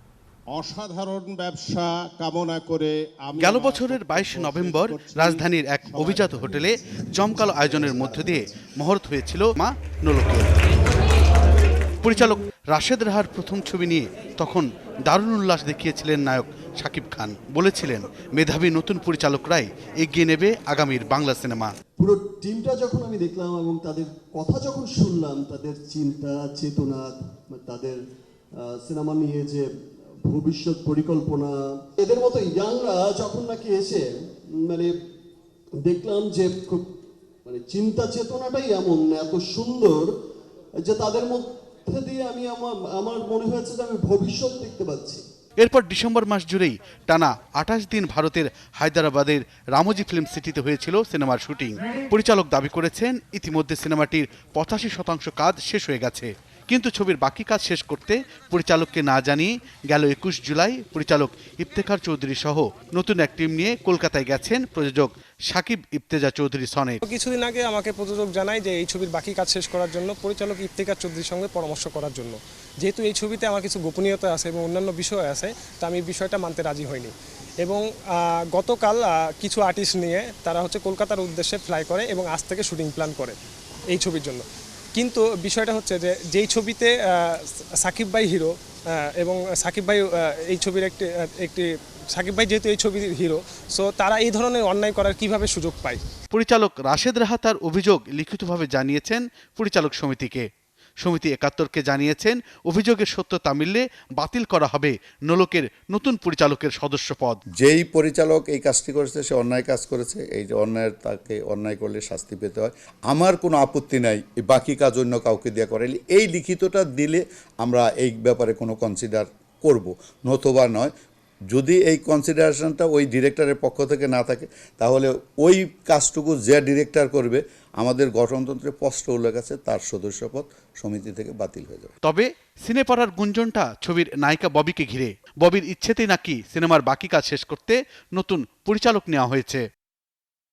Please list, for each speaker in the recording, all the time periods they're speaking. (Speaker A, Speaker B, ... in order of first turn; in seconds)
Speaker A: 0.5-6.5
Speaker B: 3.4-10.6, 12.0-21.7, 45.6-67.0, 96.3-100.4, 101.0-107.4, 132.0-139.6
Speaker C: 22.0-28.0, 28.6-29.6, 30.2-34.0, 34.6-34.9, 35.8-36.8, 37.5-40.1, 40.8-45.2
Speaker D: 67.0-77.1, 78.5-83.4, 83.9-84.4, 85.0-86.9, 87.8-88.5, 89.2-96.0
Speaker E: 107.6-120.9, 121.5-131.9